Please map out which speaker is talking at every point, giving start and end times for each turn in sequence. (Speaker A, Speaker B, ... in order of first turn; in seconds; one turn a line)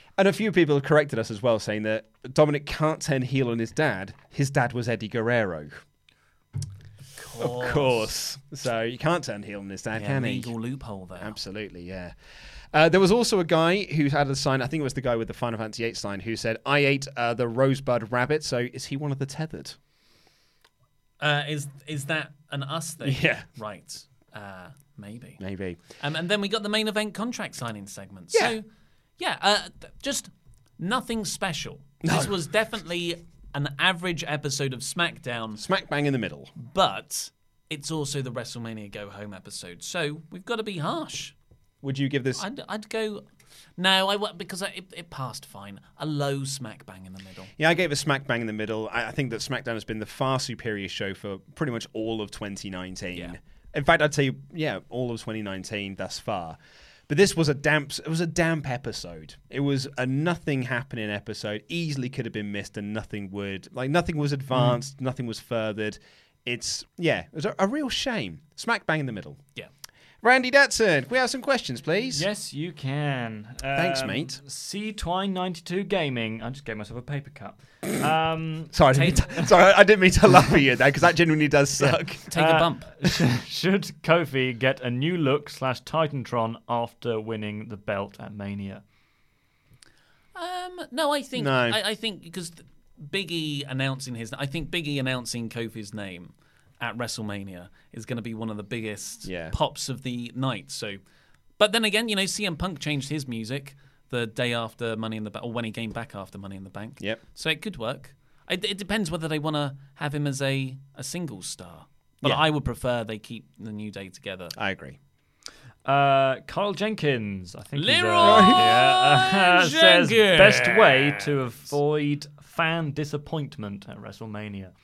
Speaker A: 0.2-5.8
Speaker B: 7.2-8.1
Speaker A: 7.4-10.5
Speaker B: 9.9-11.3
Speaker A: 11.2-12.1
Speaker A: 12.7-19.8
Speaker B: 21.2-25.4
Speaker A: 23.0-23.4
Speaker A: 25.4-25.8
Speaker B: 26.0-28.6
Speaker B: 29.2-35.6
Speaker A: 32.0-32.4
Speaker A: 35.6-36.5
Speaker B: 36.5-41.3
Speaker A: 41.8-42.4
Speaker B: 42.4-43.2
Speaker B: 43.8-47.5
Speaker A: 47.6-69.4
Speaker A: 70.2-72.3
Speaker C: 72.1-78.8
Speaker A: 73.7-74.4
Speaker A: 78.7-82.3
Speaker C: 81.8-88.8
Speaker B: 82.3-82.9
Speaker B: 90.3-101.0
Speaker A: 91.3-91.8
Speaker A: 99.2-99.5
Speaker B: 101.6-114.5
Speaker A: 114.5-115.0
Speaker C: 115.8-124.7
Speaker B: 117.7-121.2
Speaker A: 118.2-118.8